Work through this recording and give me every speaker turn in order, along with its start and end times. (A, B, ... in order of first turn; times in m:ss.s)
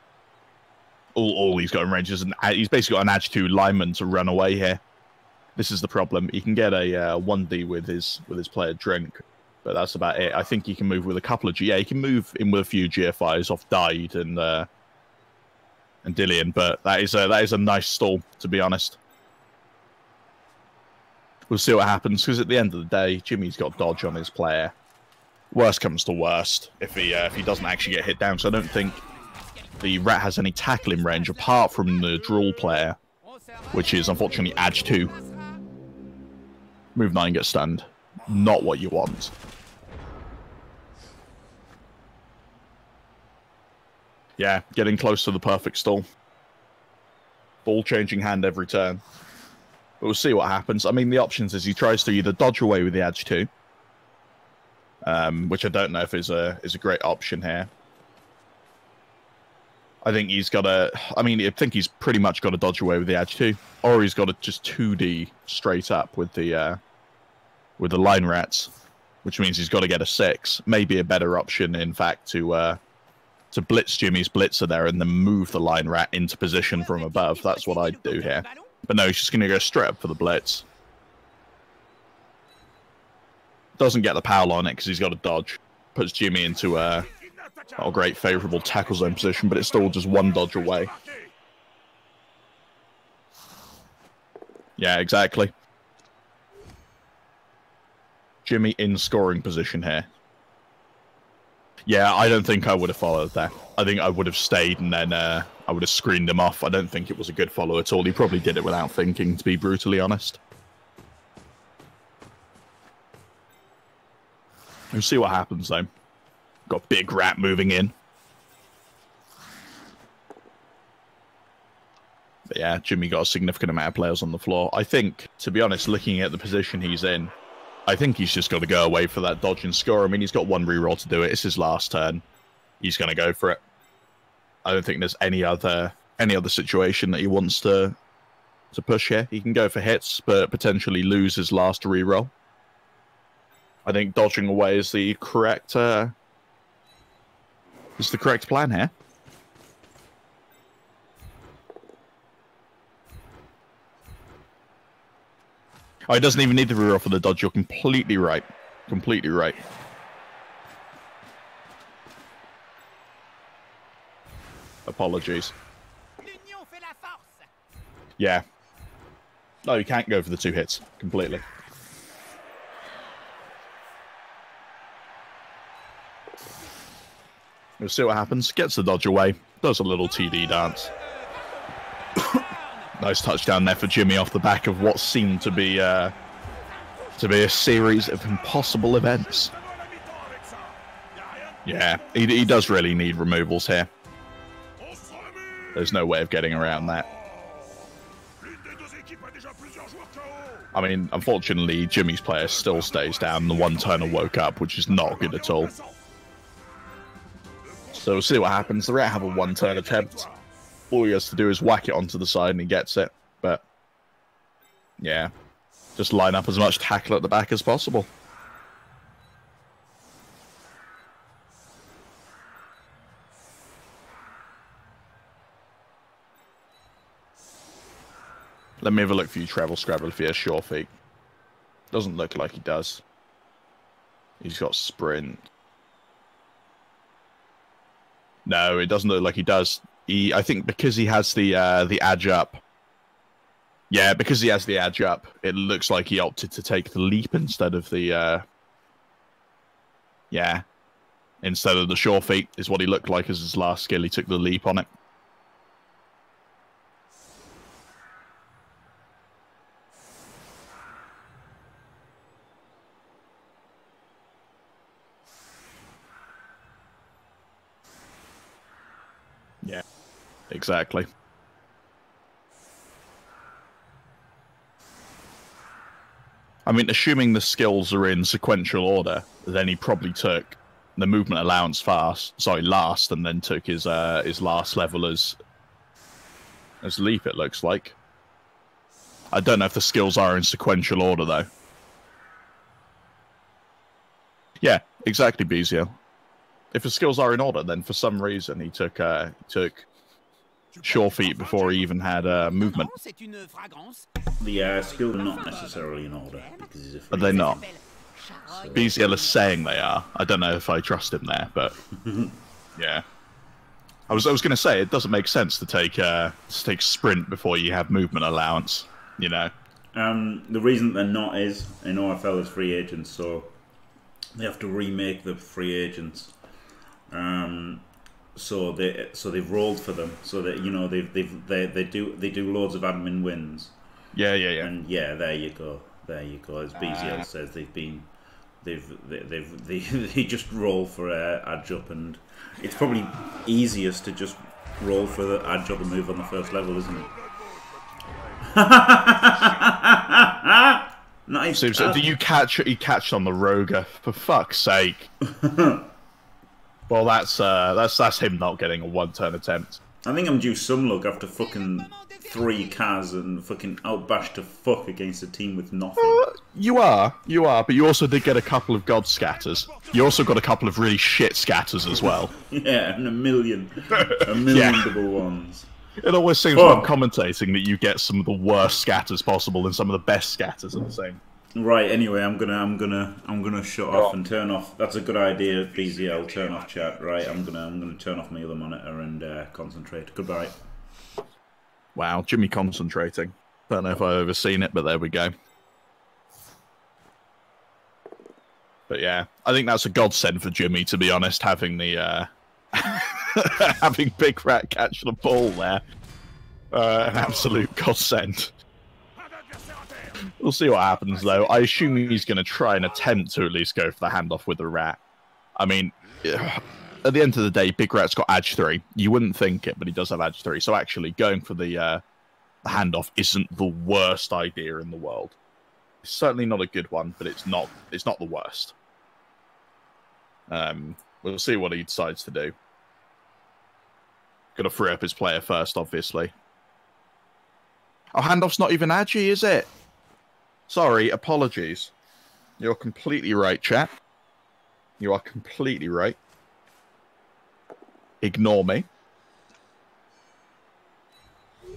0:01.2-0:04.8 A
0:05.6-0:14.7 A
0:16.0-0:19.0 A
0:21.5-0:24.8 A
0:25.5-0:29.0 A
0:27.3-0:32.6 B
0:29.8-0:33.0 A
0:33.2-0:35.6 B
0:33.7-0:35.1 A
0:37.0-0:39.3 A
0:44.4-0:46.0 A
0:47.6-0:49.0 A
0:50.0-0:53.5 A
0:55.0-0:57.7 A
1:00.0-1:06.8 A
1:07.8-1:08.7 A
1:09.2-1:12.8 A
1:13.5-1:20.7 A
1:16.6-1:18.7 B
1:23.8-1:27.1 A
1:26.9-1:31.3 C
1:27.8-1:30.9 A
1:34.8-1:35.5 A
1:38.4-1:40.1 A
1:41.9-1:50.4 A
1:54.9-1:55.9 A
1:56.7-1:57.9 A
2:02.5-2:07.3 A
2:07.9-2:12.2 A
2:12.8-2:13.6 A
2:14.6-2:18.0 A
2:18.7-2:22.3 A
2:23.8-2:26.1 A
2:28.0-2:28.9 A
2:36.1-2:39.6 A
2:44.9-2:45.5 A
2:46.2-2:47.5 B
2:48.2-2:48.4 A
2:49.6-2:51.4 A
2:57.8-3:00.9 A
3:00.0-3:02.9 B
3:03.0-3:06.1 A
3:05.2-3:05.9 B
3:06.5-3:07.4 B
3:07.2-3:09.5 A
3:09.2-3:13.1 C
3:11.6-3:13.9 A
3:14.8-3:16.0 C
3:15.8-3:17.1 A
3:16.6-3:20.7 C
3:20.7-3:25.7 A
3:22.4-3:26.0 C
3:27.6-3:30.5 C
3:28.0-3:30.3 A
3:30.9-3:33.6 A
3:35.0-3:35.3 A
3:36.0-3:38.1 A
3:48.8-3:50.9 A
3:51.9-3:53.0 A
3:54.4-3:55.4 A
3:58.5-4:02.6 A
4:03.9-4:08.4 A
4:10.3-4:10.6 A
4:11.4-4:14.9 A
4:30.5-4:31.1 A
4:36.7-4:45.4 A
4:46.8-4:48.0 A
4:49.3-4:51.5 A
4:54.6-4:56.0 A
4:56.7-4:59.9 A
5:00.7-5:02.0 C
5:00.8-5:02.9 A
5:02.3-5:09.7 B
5:04.4-5:07.7 D
5:07.1-5:07.6 A
5:08.5-5:08.9 D
5:08.7-5:11.7 A
5:11.8-5:12.4 D
5:12.8-5:13.0 A
5:14.1-5:19.5 A
5:19.9-5:23.6 D
5:24.4-5:26.4 D
5:27.1-5:33.8 D
5:34.1-5:34.7 A
5:34.6-5:47.1 D
5:36.8-5:37.3 A
5:45.0-5:49.8 C
5:48.4-5:52.1 D
5:51.5-5:55.1 A
5:55.2-5:55.9 D
5:56.9-5:59.8 A
6:00.0-6:06.3 D
6:01.4-6:02.8 B
6:06.0-6:12.3 A
6:09.0-6:10.7 C
6:12.0-6:15.7 D
6:13.9-6:14.9 A
6:16.0-6:21.2 A
6:16.5-6:16.9 D
6:21.6-6:30.6 D
6:25.4-6:27.5 C
6:32.0-6:35.3 A
6:38.9-6:45.8 A
6:46.7-6:48.5 A
6:49.2-6:53.2 C
6:50.3-6:55.0 A
6:55.6-7:02.0 A
7:02.6-7:05.4 A
7:06.0-7:08.8 A
7:10.5-7:12.5 A
7:14.6-7:16.3 A
7:18.1-7:19.7 A
7:20.7-7:21.9 A
7:22.6-7:23.9 A
7:25.0-7:26.2 A
7:28.2-7:28.9 A